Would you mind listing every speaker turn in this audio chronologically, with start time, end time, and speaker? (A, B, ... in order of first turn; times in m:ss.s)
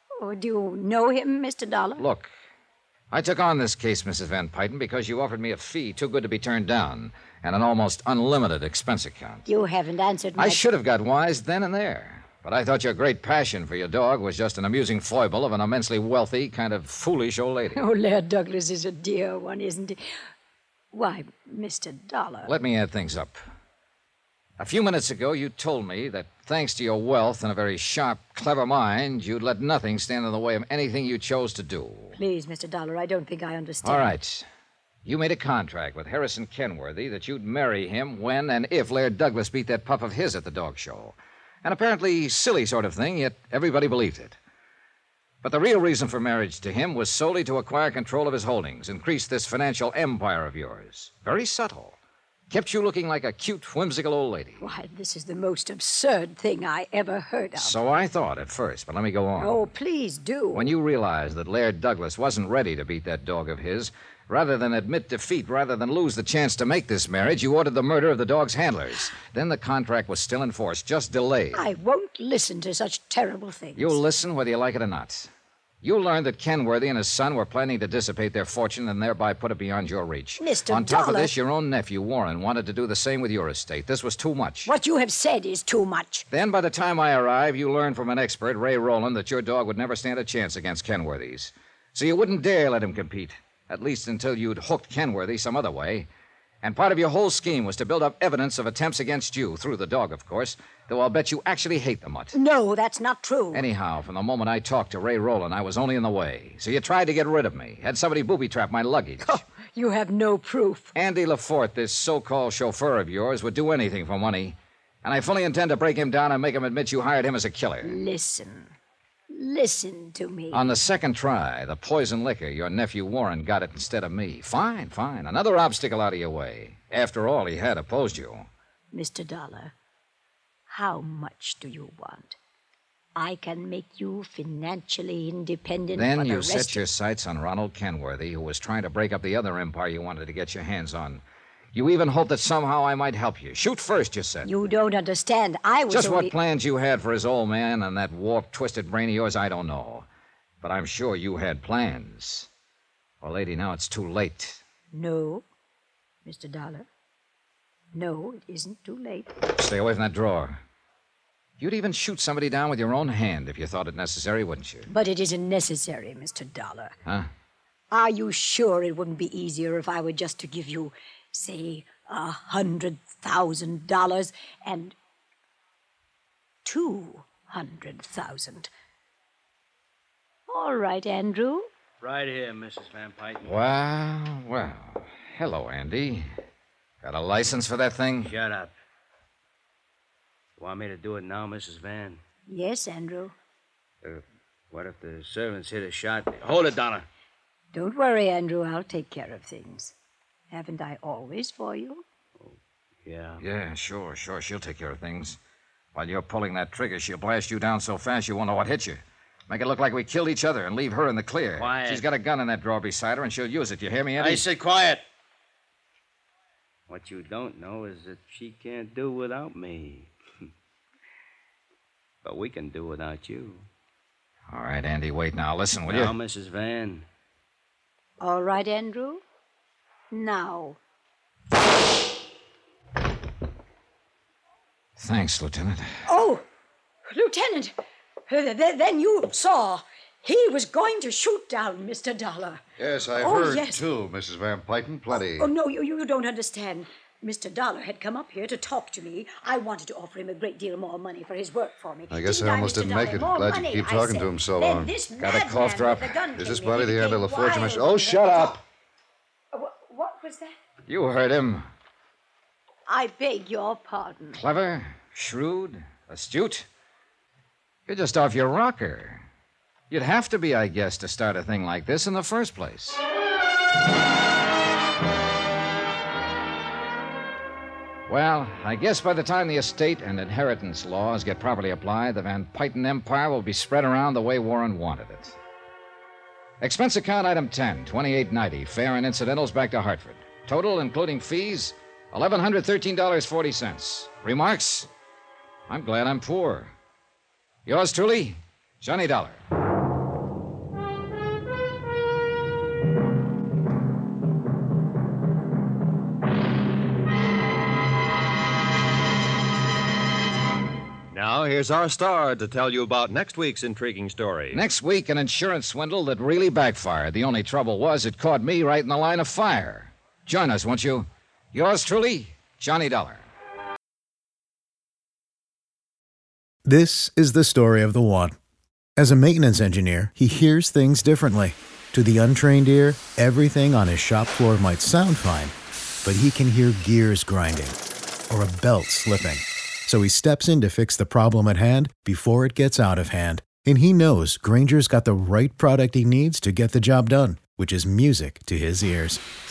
0:00.2-0:02.0 A
0:02.0-0:02.3 B
0:03.1-0:09.4 B
0:09.4-0:10.6 A
0:10.4-0:17.8 B
0:17.7-0:20.0 A
0:20.9-0:22.5 A
0:22.4-0:23.4 B
0:24.6-0:32.2 B
0:32.2-0:34.1 A
0:33.8-0:34.4 B
0:35.0-0:44.4 B
0:45.4-0:52.0 B
0:52.5-0:54.6 B
0:54.6-0:57.7 A
0:57.6-0:59.6 B
0:59.4-1:00.7 A
1:00.5-1:11.6 B
1:11.5-1:14.0 A
1:13.8-1:15.3 B
1:15.8-1:24.7 B
1:20.4-1:21.3 A
1:24.6-1:26.2 A
1:26.3-1:36.1 B
1:36.6-1:42.4 B
1:42.3-1:43.6 A
1:43.5-1:49.4 B
1:49.2-1:50.9 A
1:51.0-1:58.0 B
1:57.8-1:58.7 A
1:59.3-2:00.6 A
2:00.5-2:08.5 B
2:08.9-2:09.7 A
2:10.7-2:12.4 A
2:13.2-2:16.8 A
2:16.0-2:21.2 B
2:21.7-2:24.5 B
2:24.4-2:26.3 A
2:25.9-2:30.0 B
2:30.6-2:32.5 B
2:33.2-2:34.6 B
2:34.9-2:35.4 A
2:36.2-2:36.8 A
2:37.9-2:39.3 A
2:39.5-2:40.6 B
2:41.6-2:44.9 B
2:44.9-2:46.9 A
2:47.9-2:54.9 A
2:56.6-2:58.7 A
3:00.5-3:01.7 A
3:02.0-3:03.5 C
3:03.4-3:06.3 B
3:07.0-3:08.3 B
3:08.2-3:08.7 C
3:10.6-3:12.2 C
3:12.5-3:13.3 A
3:14.0-3:17.0 C
3:17.7-3:19.9 A
3:20.5-3:22.0 A
3:22.4-3:23.4 C
3:23.4-3:25.4 B
3:25.9-3:34.4 B
3:31.6-3:32.0 C
3:34.2-3:35.0 C
3:36.9-3:40.1 C
3:42.2-3:43.6 C
3:44.5-3:46.1 B
3:45.8-3:47.0 C
3:48.2-3:49.2 A
3:50.1-3:50.8 A
3:55.0-3:56.0 B
3:56.0-3:56.4 A
3:57.1-3:57.7 A
3:58.3-4:02.6 A
4:02.8-4:05.5 D
4:03.2-4:03.8 A
4:05.1-4:18.6 A
4:12.1-4:14.9 D
4:15.2-4:16.2 B
4:16.4-4:18.6 D
4:19.5-4:20.5 A
4:20.9-4:21.6 B
4:22.9-4:24.4 A
4:24.3-4:26.7 B
4:27.9-4:29.2 B
4:29.9-4:33.0 B
4:38.1-4:45.4 B
4:46.6-4:54.9 B
4:55.7-4:56.7 B
4:57.6-4:59.4 B
5:11.1-5:14.6 E
5:14.5-5:23.2 B
5:26.6-5:28.4 F
5:29.0-5:37.8 F
5:38.3-5:49.2 F